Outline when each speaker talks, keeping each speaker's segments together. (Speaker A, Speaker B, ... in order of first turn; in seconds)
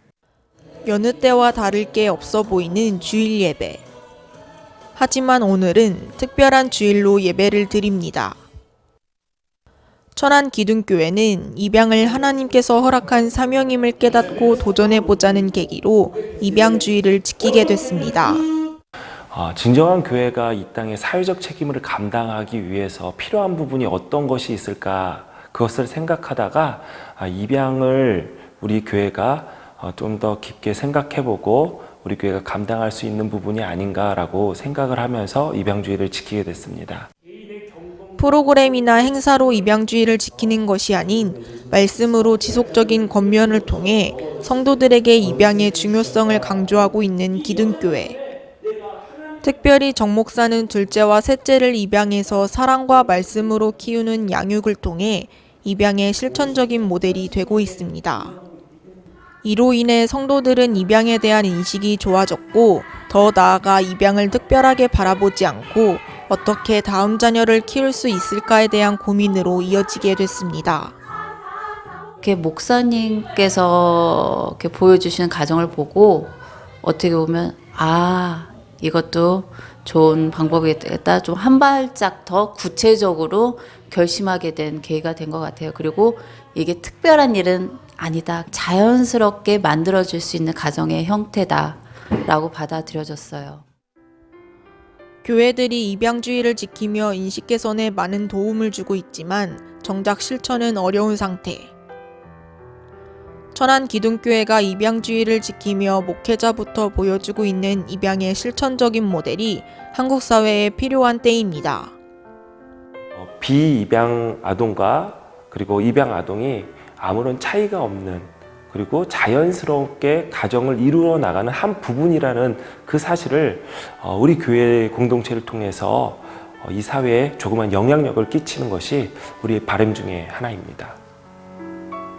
Speaker A: 0.8-3.8, 5.0-8.4, 10.1-18.4, 38.2-48.2, 49.4-58.4, 59.4-70.9, 95.2-101.7, 103.5-111.9
Speaker B: 19.3-37.1, 113.1-131.0
Speaker C: 72.2-93.6